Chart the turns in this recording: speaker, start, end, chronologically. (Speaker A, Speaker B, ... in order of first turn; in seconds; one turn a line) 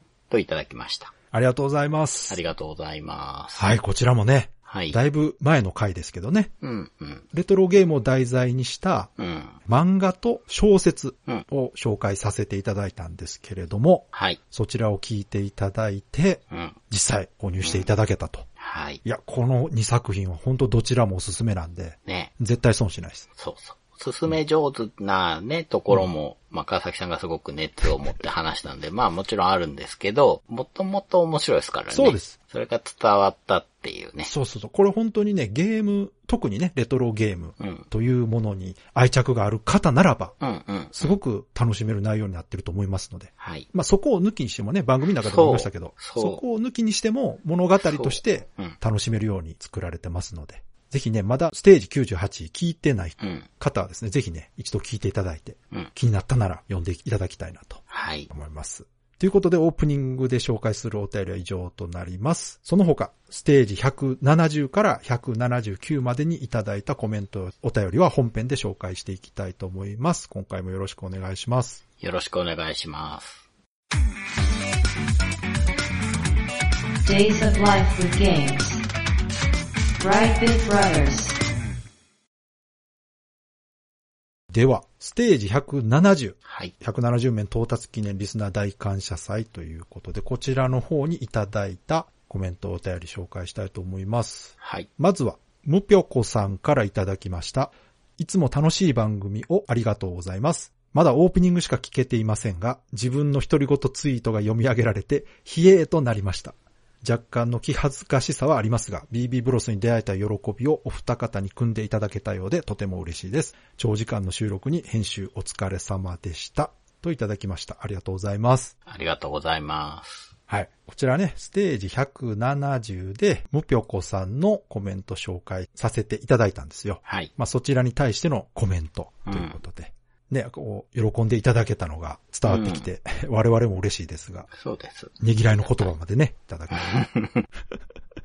Speaker A: 0.3-1.1
Speaker B: 1.3-2.4
Speaker A: 2.3-3.7
Speaker B: 3.6-6.5
Speaker A: 4.7-5.0
Speaker A: 6.6-7.2
Speaker B: 7.3-9.1
Speaker A: 9.2-9.6
Speaker B: 9.7-18.5
Speaker A: 14.1-14.4
Speaker A: 16.5-16.8
Speaker A: 17.6-17.9
Speaker A: 18.6-19.0
Speaker B: 19.0-23.2
Speaker A: 22.1-22.3
Speaker A: 23.4-34.3
Speaker B: 31.9-32.3
Speaker B: 34.2-40.3
Speaker A: 37.6-37.9
Speaker A: 40.4-41.1
Speaker B: 40.9-71.8
Speaker A: 43.4-43.7
Speaker A: 45.2-46.4
Speaker A: 47.8-48.8
Speaker A: 53.2-53.5
Speaker A: 57.9-58.3
Speaker A: 72.0-73.4
Speaker C: 77.0-78.8
Speaker C: 80.0-81.4
Speaker B: 84.5-118.7
Speaker A: 86.5-86.7
Speaker A: 94.6-94.9
Speaker A: 118.8-120.3
Speaker B: 120.5-134.5
Speaker A: 127.0-127.3
Speaker A: 129.2-129.6
Speaker A: 132.5-132.8
Speaker A: 134.5-135.9
Speaker B: 135.2-137.0
Speaker A: 136.7-137.4